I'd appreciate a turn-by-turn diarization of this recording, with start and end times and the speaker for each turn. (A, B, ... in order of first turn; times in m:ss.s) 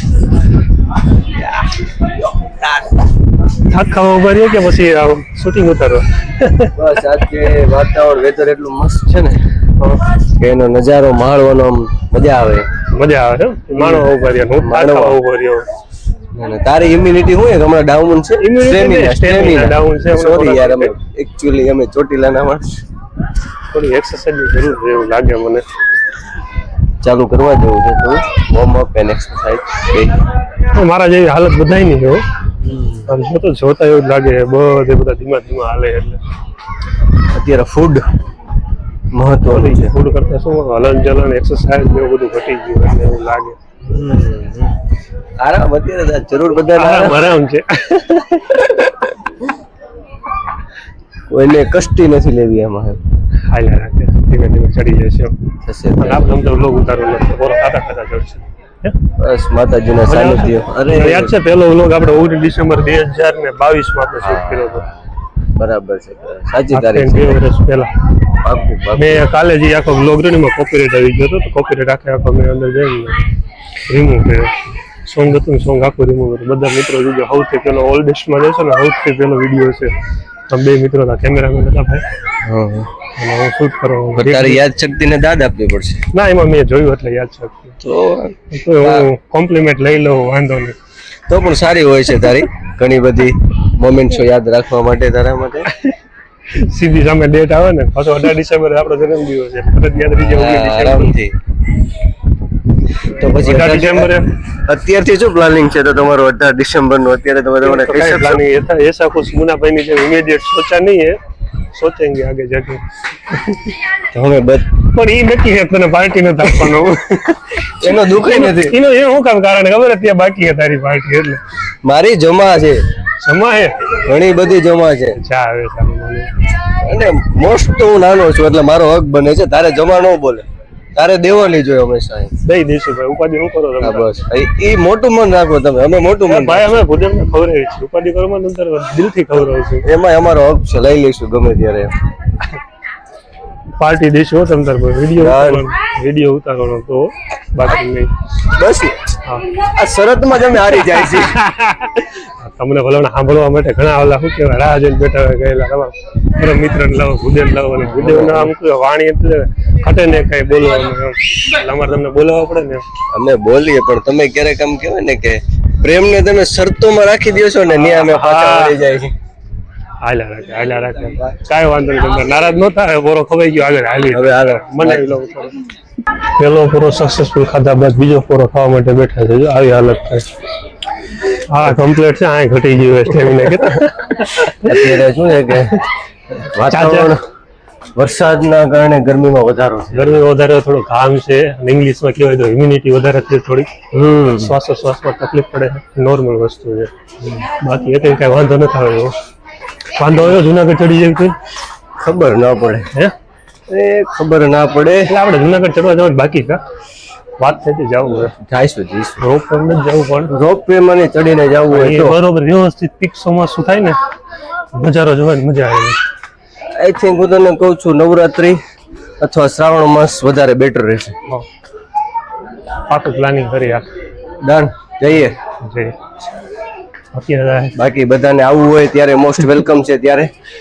0:03.6-0:06.7 A
0:06.8-0:09.4 B
0:10.4-0:12.7 B
0:12.9-0:15.7 A
0:13.8-0:14.1 B
0:14.6-0:15.2 B
0:16.4-0:22.8 B
0:18.4-0:20.9 A
0:23.7-0:25.6 A
0:27.0-0:30.2 B
0:30.7-0:32.2 A
0:32.6-0:33.1 B
0:33.1-0:36.2 A
0:37.3-0:38.0 B
0:39.1-0:40.0 B
0:39.5-0:43.6 A
0:43.8-0:44.8 B
0:45.4-0:47.3 B
0:46.7-0:48.6 A
0:48.6-0:49.1 B
0:51.3-0:53.0 B
0:53.5-0:55.4 A
0:55.6-0:56.3 B
0:56.0-0:59.0 A
0:59.2-1:01.4 B
1:00.1-1:04.9 A
1:04.2-1:05.0 B
1:05.6-1:07.4 B
1:06.7-1:07.9 A
1:08.4-1:09.3 B
1:09.0-1:13.2 A
1:13.9-1:19.9 A
1:20.5-1:22.0 A
1:22.4-1:22.9 B
1:23.2-1:24.6 A
1:24.1-1:26.1 B
1:26.1-1:27.8 A
1:27.8-1:29.1 B
1:28.5-1:30.8 A
1:31.3-1:35.7 B
1:36.5-1:41.1 A
1:40.1-1:41.4 B
1:43.0-1:48.4 B
1:43.4-1:44.3 A
1:47.6-1:51.2 A
1:51.7-1:53.7 A
1:54.1-1:54.8 B
1:54.9-2:01.4 A
1:57.8-1:58.8 B
2:01.8-2:02.8 B
2:03.2-2:03.9 A
2:04.0-2:05.2 B
2:05.2-2:06.3 A
2:06.8-2:12.3 B
2:12.4-2:14.2 A
2:13.8-2:16.9 B
2:16.3-2:19.8 A
2:19.8-2:22.0 B
2:23.8-2:28.1 A
2:25.2-2:25.7 B
2:28.4-2:31.3 B
2:31.0-2:42.8 A
2:37.8-2:38.5 B
2:43.1-2:49.1 B
2:48.1-2:48.8 A
2:50.0-2:55.6 A
2:54.1-2:55.0 B
2:56.4-3:00.3 A
3:01.5-3:04.9 A
3:04.6-3:05.8 B
3:06.4-3:07.2 B
3:06.7-3:07.1 A
3:08.0-3:10.2 B
3:09.9-3:13.7 A
3:13.9-3:14.6 B
3:14.4-3:19.1 A
3:20.0-3:21.4 A
3:22.0-3:22.9 B
3:23.7-3:25.2 B
3:25.1-3:26.6 A
3:27.4-3:28.3 A
3:28.3-3:29.2 B
3:29.2-3:30.3 A
3:30.3-3:32.2 B
3:31.7-3:34.0 A
3:34.7-3:36.0 A
3:36.8-3:38.6 B
3:39.2-3:41.2 B
3:42.9-3:43.8 A
3:44.4-3:45.4 B
3:45.6-3:46.0 A
3:47.1-3:47.7 A
3:47.8-3:50.3 B